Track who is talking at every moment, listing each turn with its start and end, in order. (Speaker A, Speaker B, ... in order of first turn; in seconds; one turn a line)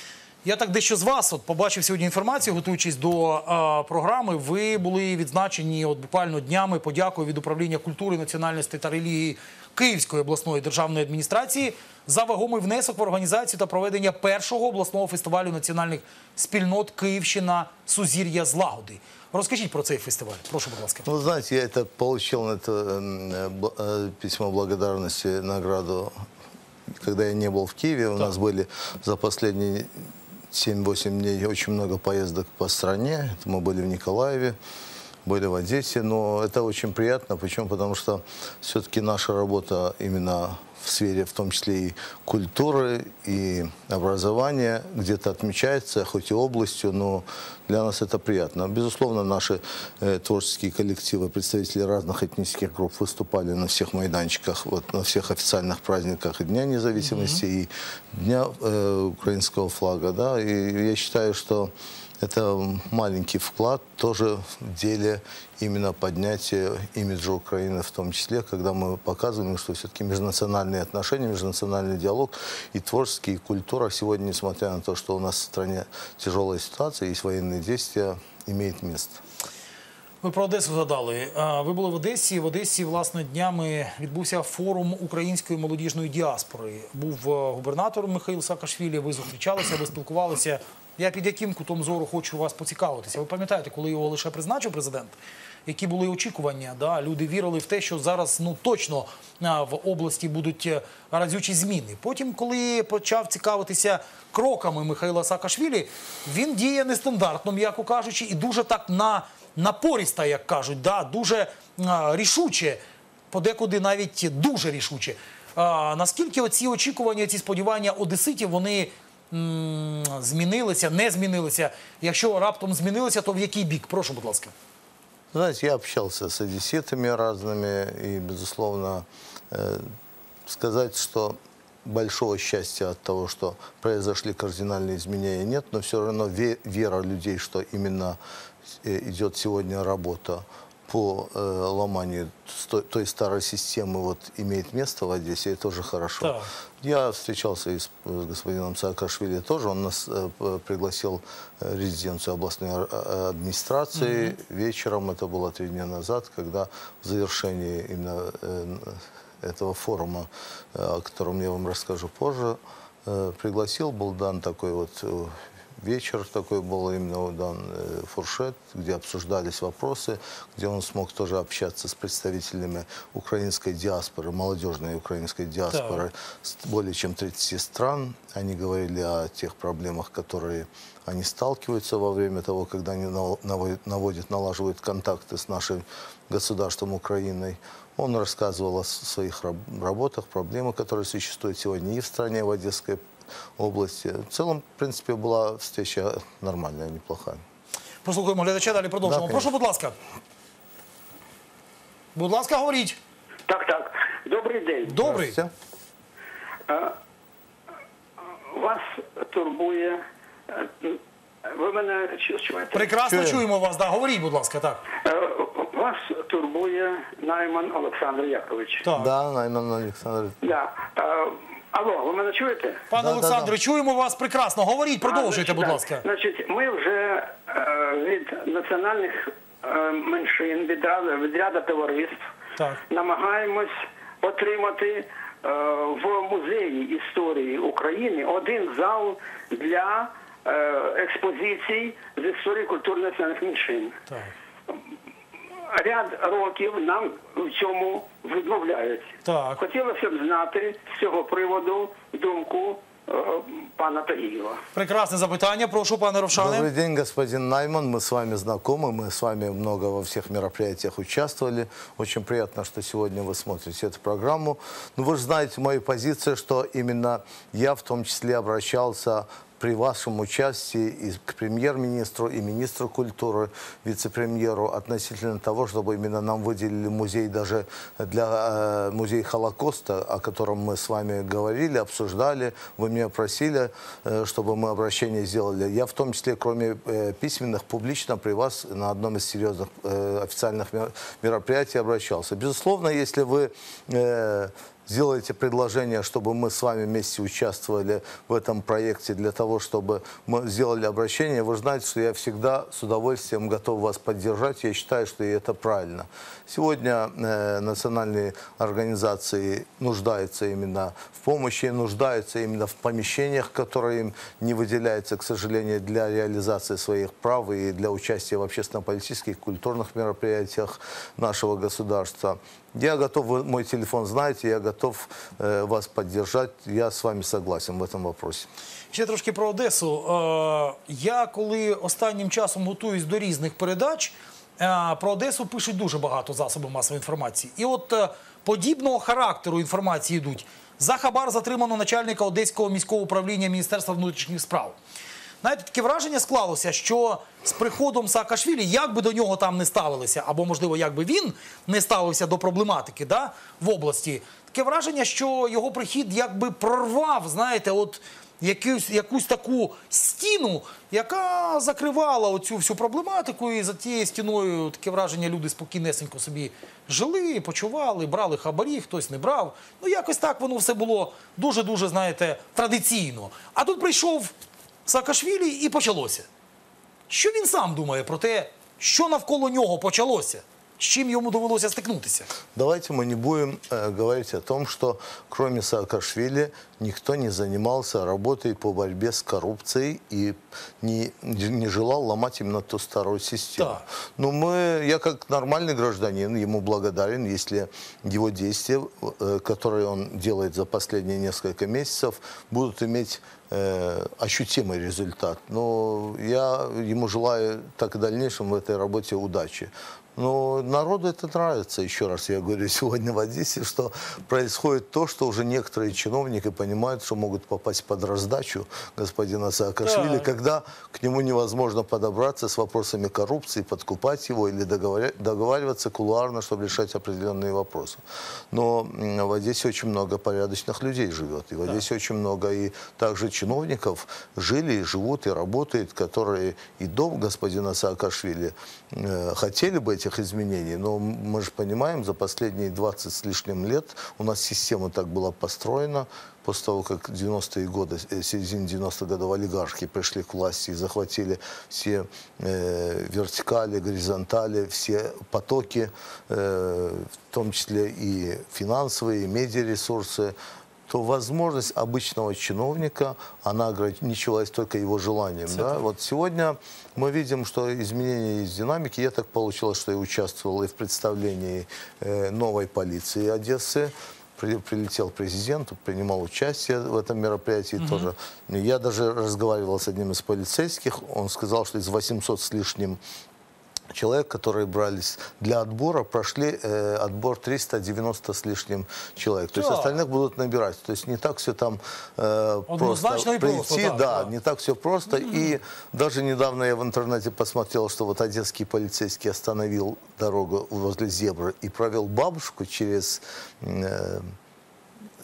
Speaker A: 0.4-21.1
Speaker B: 21.0-26.3
Speaker B: 26.9-34.6
Speaker B: 35.2-79.2
Speaker A: 57.0-57.4
Speaker A: 80.2-95.1
Speaker A: 95.7-112.8
Speaker A: 113.3-124.5
Speaker B: 125.3-129.9
Speaker B: 130.4-138.2
Speaker B: 138.7-197.4
Speaker A: 146.2-146.5
Speaker A: 153.9-154.3
Speaker A: 175.7-176.0
Speaker A: 198.0-200.0
Speaker B: 199.0-199.5
Speaker A: 202.1-203.0
Speaker C: 203.5-204.9
Speaker A: 204.8-205.4
Speaker B: 204.9-205.5
Speaker C: 206.7-206.9
Speaker C: 208.5-212.9
Speaker A: 212.7-214.8
Speaker B: 213.1-213.4
Speaker C: 215.0-218.8
Speaker A: 218.8-219.1
Speaker B: 218.9-220.4
Speaker C: 220.4-222.8
Speaker A: 222.9-226.0
Speaker B: 222.9-223.5
Speaker C: 225.0-232.2
Speaker C: 232.9-244.0
Speaker A: 244.1-244.3
Speaker C: 245.7-254.6
Speaker A: 249.2-249.6
Speaker A: 254.7-256.7
Speaker B: 256.4-328.5
Speaker A: 328.9-344.8
Speaker A: 345.4-374.3
Speaker A: 374.9-376.3
Speaker A: 377.1-382.3
Speaker B: 382.5-460.3
Speaker A: 393.6-393.8
Speaker A: 419.8-420.3
Speaker B: 460.9-483.0
Speaker A: 465.5-465.9
Speaker A: 477.8-478.1
Speaker B: 483.9-504.4
Speaker A: 489.5-490.0
Speaker A: 492.7-494.3
Speaker A: 495.1-495.5